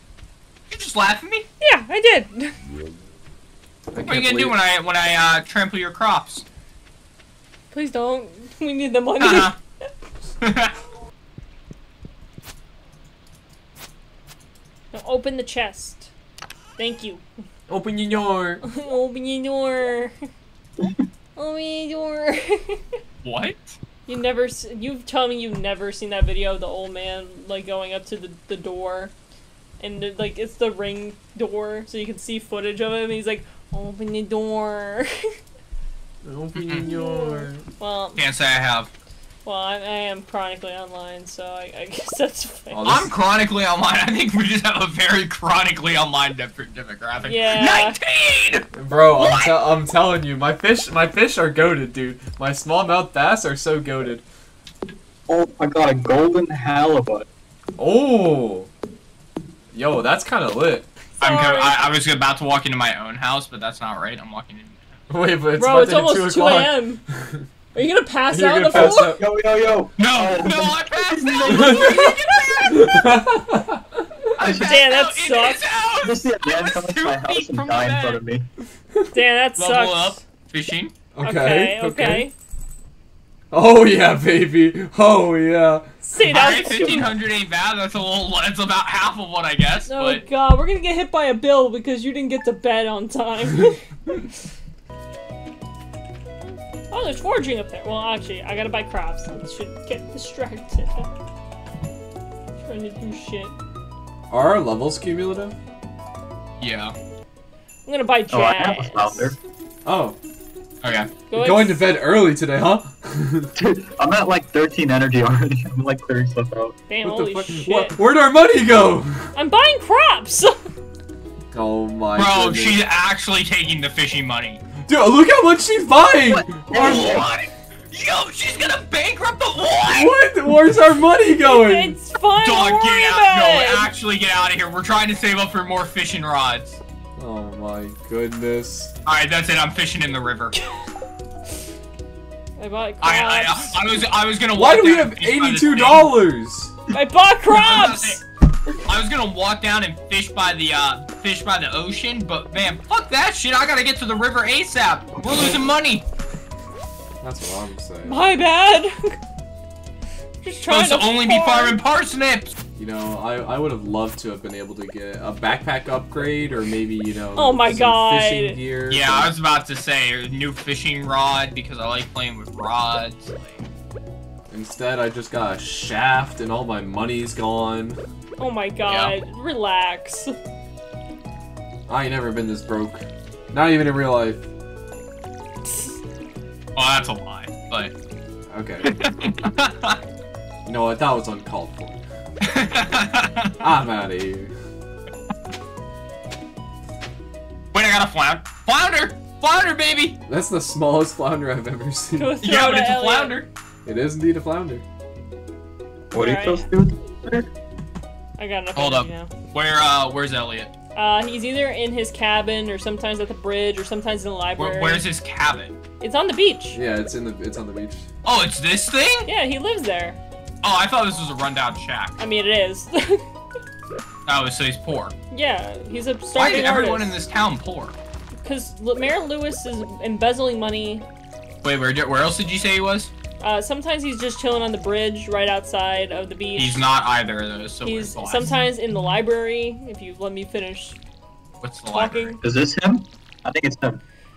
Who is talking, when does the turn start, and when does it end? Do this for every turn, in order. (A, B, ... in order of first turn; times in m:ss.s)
0:00.7-0:01.5 A
0:01.6-0:02.6 B
0:03.9-0:04.6 C
0:04.0-0:06.4 A
0:07.7-0:09.5 B
0:09.2-0:09.6 A
0:10.4-0:10.8 A
0:14.9-0:16.1 B
0:16.8-0:17.2 B
0:17.7-0:18.6 C
0:18.6-0:20.1 B
0:21.4-0:23.0 B
0:23.2-0:23.8 A
0:24.1-0:29.1 B
0:29.8-0:35.3 B
0:36.2-0:37.6 C
0:36.6-0:36.9 A
0:36.8-0:38.2 B
0:38.2-0:38.9 A
0:39.4-0:42.9 B
0:42.7-0:43.1 C
0:42.8-0:49.6 A
0:47.2-0:48.0 B
0:48.7-0:54.2 C
0:55.3-0:57.3 D
0:57.8-0:58.7 C
0:59.7-1:00.9 C
1:01.2-1:01.8 B
1:01.2-1:05.0 A
1:05.1-1:07.4 C
1:05.6-1:07.0 B
1:07.7-1:09.2 B
1:08.3-1:09.2 C
1:08.7-1:12.2 D
1:10.0-1:13.0 A
1:11.4-1:12.1 C
1:11.7-1:12.9 B
1:12.7-1:14.1 C
1:14.3-1:18.2 A
1:14.4-1:14.8 D
1:14.5-1:15.6 B
1:16.0-1:18.4 D
1:19.1-1:20.2 B
1:19.6-1:20.9 A
1:21.1-1:22.3 C
1:21.2-1:22.3 B
1:23.5-1:25.9 C
1:26.0-1:27.1 B
1:26.2-1:30.2 A
1:29.9-1:34.2 B
1:36.9-1:41.1 B
1:42.6-1:43.6 B
1:44.3-1:45.6 C
1:46.6-1:46.9 A
1:47.8-1:49.4 B
1:48.3-1:49.4 D
1:49.8-1:50.2 C
1:50.8-1:51.1 A
1:51.3-1:51.8 B
1:51.3-1:53.5 C
1:53.5-1:56.8 D
1:56.9-1:58.0 B
1:57.0-1:59.3 C
1:59.3-2:00.6 B
2:01.5-2:02.8 C
2:02.1-2:04.6 A
2:04.9-2:07.2 C
2:06.5-2:10.2 A
2:06.7-2:07.3 D
2:09.8-2:12.0 C
2:11.4-2:13.9 B
2:12.4-2:16.8 A
2:17.2-2:18.9 C
2:19.0-2:20.6 A
2:22.6-2:23.8 B
2:23.0-2:26.1 A
2:24.5-2:26.7 C
2:26.9-2:28.2 B
2:27.5-2:28.2 A
2:28.8-2:36.0 A
2:37.2-2:38.3 C
2:38.0-2:39.2 B
2:40.4-2:41.8 B
2:40.7-2:42.6 A
2:42.8-2:49.3 C
2:47.4-2:48.6 B
2:48.9-2:53.6 A
2:54.5-2:58.0 C
2:58.4-3:00.3 B
2:58.9-2:59.1 A
3:01.9-3:04.4 C
3:06.7-3:07.9 A
3:08.5-3:08.9 C
3:08.8-3:10.0 A
3:10.6-3:12.0 C
3:12.4-3:13.6 A
3:13.6-3:14.5 C
3:17.7-3:20.2 A
3:20.3-3:22.4 C
3:22.2-3:23.4 B
3:22.4-3:23.5 A
3:23.8-3:24.8 C
3:26.1-3:27.5 D
3:26.2-3:26.7 B
3:28.4-3:29.3 B
3:28.8-3:30.7 A
3:30.9-3:35.0 B
3:34.6-3:35.8 A
3:36.0-3:36.8 B
3:36.7-3:38.0 C
3:38.2-3:39.3 A
3:39.2-3:40.2 B
3:40.6-3:42.2 A
3:42.2-3:43.2 B
3:44.2-3:45.1 A
3:45.3-3:47.1 B
3:46.3-3:48.0 A
3:48.4-3:51.0 B
3:51.6-3:53.1 A
3:53.4-3:56.9 B
3:56.6-3:58.5 A
3:57.8-4:01.0 B
4:01.6-4:02.4 A
4:01.9-4:02.4 B
4:02.4-4:04.0 D